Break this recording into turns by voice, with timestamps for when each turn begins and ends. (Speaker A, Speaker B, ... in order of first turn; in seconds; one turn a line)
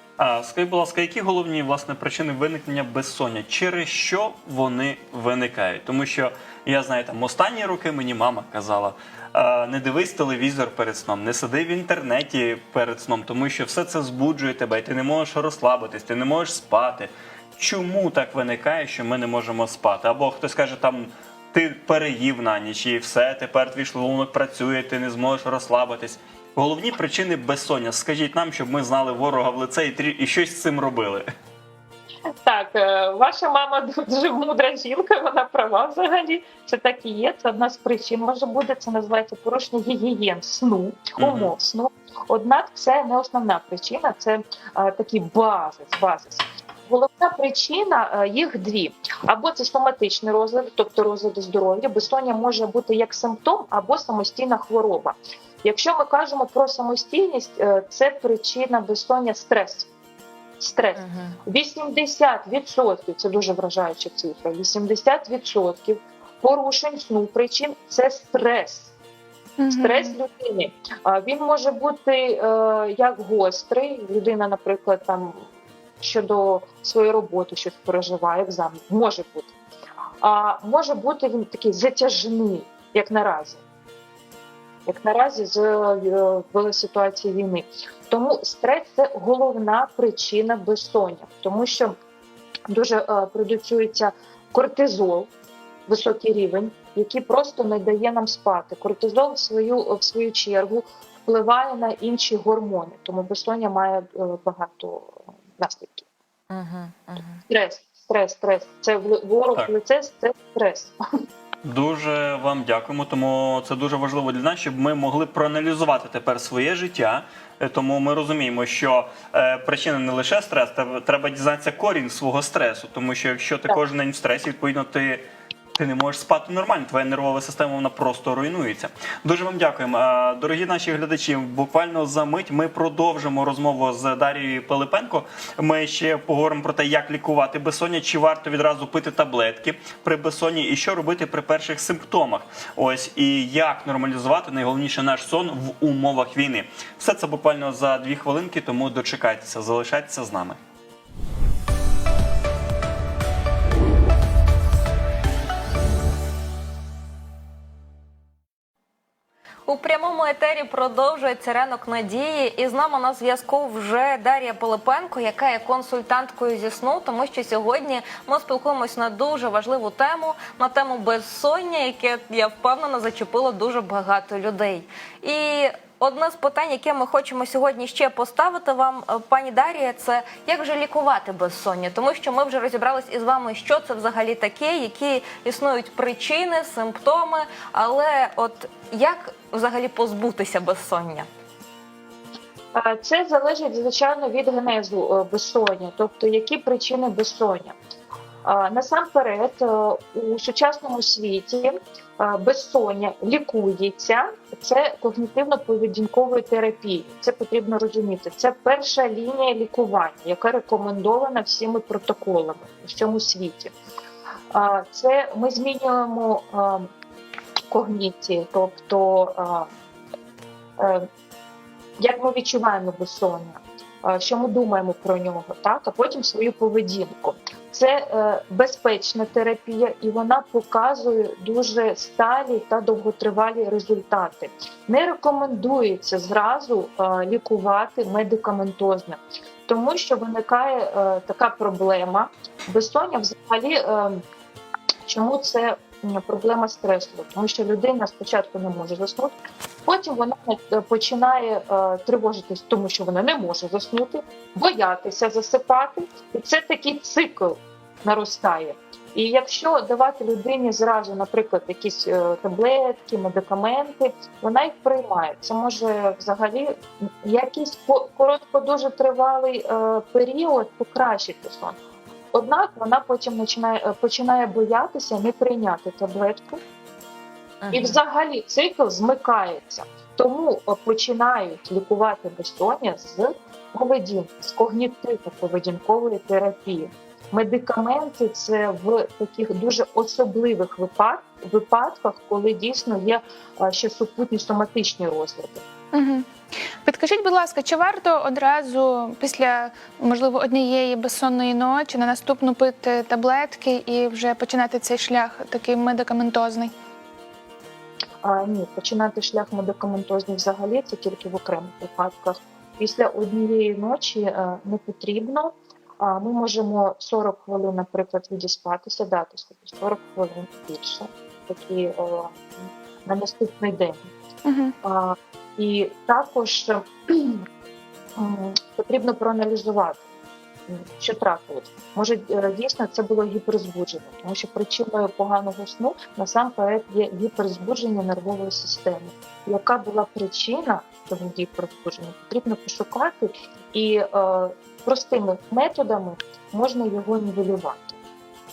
Speaker A: 0.2-31.3
Speaker B: 32.5-59.9
Speaker A: 41.2-41.5
Speaker B: 60.6-68.9
Speaker C: 61.0-61.4
Speaker D: 69.6-70.1
Speaker B: 69.7-75.5
Speaker B: 76.0-79.5
Speaker B: 80.2-83.6
Speaker B: 84.9-91.9
Speaker B: 92.7-95.3
Speaker B: 95.9-106.1
Speaker C: 106.5-107.4
Speaker B: 107.5-111.0
Speaker A: 111.6-125.2
Speaker A: 125.8-150.6
Speaker C: 159.7-191.3
Speaker B: 192.7-197.8
Speaker B: 198.4-213.7
Speaker B: 214.5-216.9
Speaker B: 217.7-219.7
Speaker B: 220.8-221.1
Speaker B: 222.0-244.2
Speaker B: 245.1-271.8
Speaker B: 272.3-276.6
Speaker C: 277.6-278.0
Speaker B: 277.7-295.6
Speaker D: 295.9-296.3
Speaker D: 296.8-306.7
Speaker B: 308.2-324.0
Speaker D: 324.4-324.7
Speaker B: 324.8-327.4
Speaker B: 328.2-330.0
Speaker B: 330.7-348.0